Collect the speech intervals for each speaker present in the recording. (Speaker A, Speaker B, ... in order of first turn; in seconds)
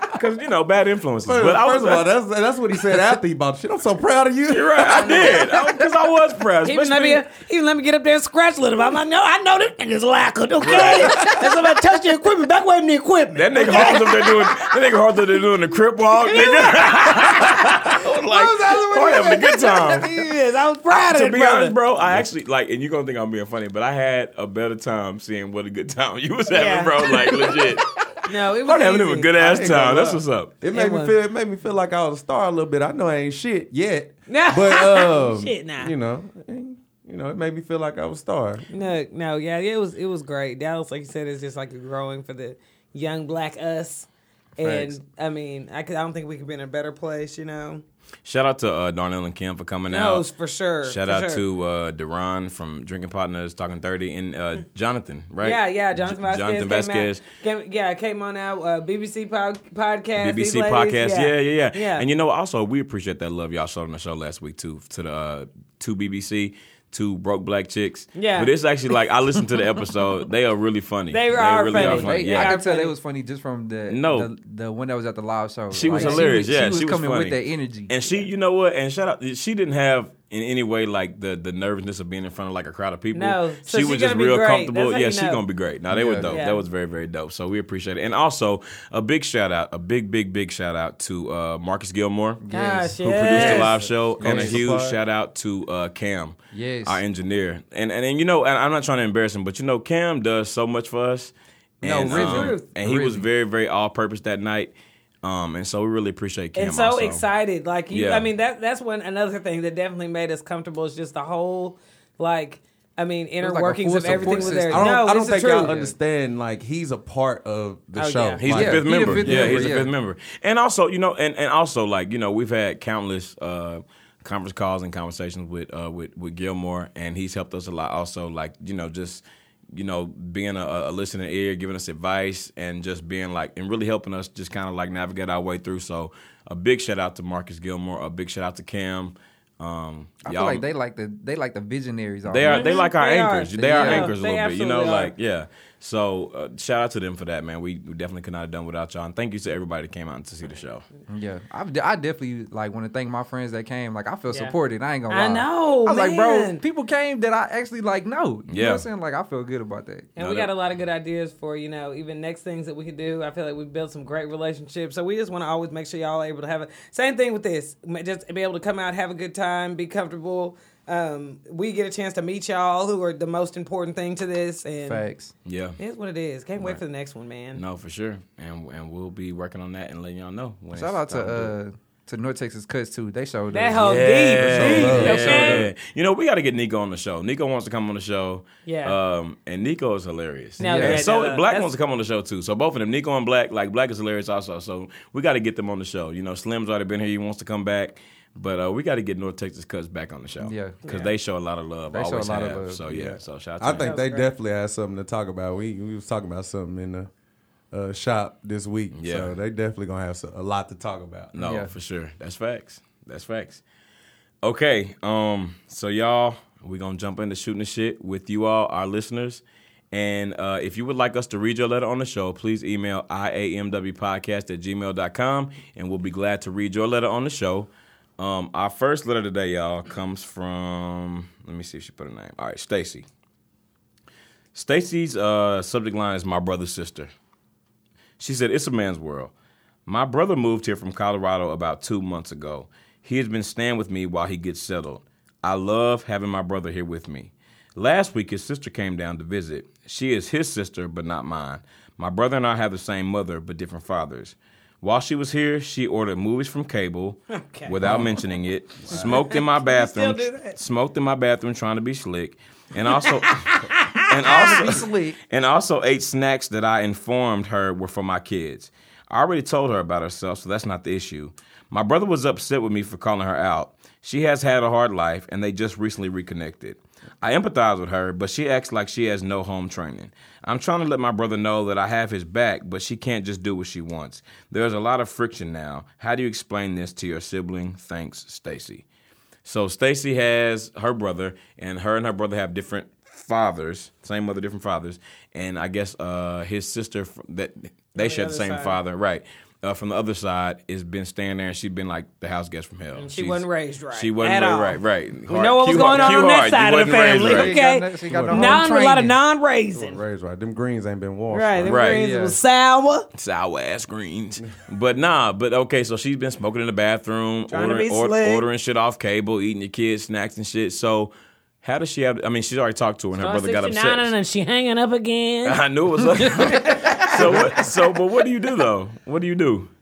Speaker A: 0.1-2.1, 4.5-7.2, 10.6-11.4, 13.3-20.1, 20.9-30.6, 48.2-50.2, 50.8-57.2, 60.2-72.5, 73.9-74.3, 75.7-92.4, 93.0-107.2, 107.9-108.2, 118.4-140.6, 142.2-150.8, 158.5-158.8, 160.2-160.5, 175.4-175.8, 177.6-181.5, 183.8-203.9, 208.9-209.3, 211.3-213.6, 214.4-233.1, 234.5-237.1, 238.2-239.3, 239.9-288.9, 289.4-307.6, 311.6-312.0, 313.1-324.1, 325.4-329.7
Speaker B: 1.2-5.5, 29.5-38.6, 94.2-95.0, 114.2-119.8, 184.6-185.2, 203.6-207.1, 207.7-211.3, 308.1-308.6, 309.7-311.9
Speaker C: 6.7-14.7, 16.2-21.8, 26.5-29.8, 30.7-31.2, 34.3-35.9, 38.7-47.8, 49.9-51.4, 55.4-62.0, 68.2-68.5, 71.1-73.0, 75.9-76.4, 83.1-85.4, 86.3-86.7, 92.5-93.7, 102.1-102.7, 106.5-115.9, 118.0-118.4, 142.5-145.1, 155.1-156.6, 160.2-175.0, 175.8-177.6, 183.5-185.7, 188.7-189.0, 190.6-191.7, 200.8-201.1, 203.8-204.3, 257.3-257.8, 258.9-260.6, 263.1-264.8, 297.9-298.8, 303.0-310.0, 311.3-313.1, 317.5-318.4, 323.2-325.6, 326.3-327.5
Speaker D: 44.6-44.9, 71.7-77.9, 85.9-86.4, 92.4-94.6, 96.5-97.0, 101.8-103.3, 113.4-114.9, 118.5-119.9, 140.2-142.7, 143.6-144.1, 151.1-160.1, 174.9-175.3, 180.7-185.7, 190.6-191.1, 200.4-200.8, 201.9-203.2, 211.4-211.7, 257.8-258.1, 264.2-265.2, 305.8-306.2, 307.1-309.1, 311.9-312.4, 326.4-327.3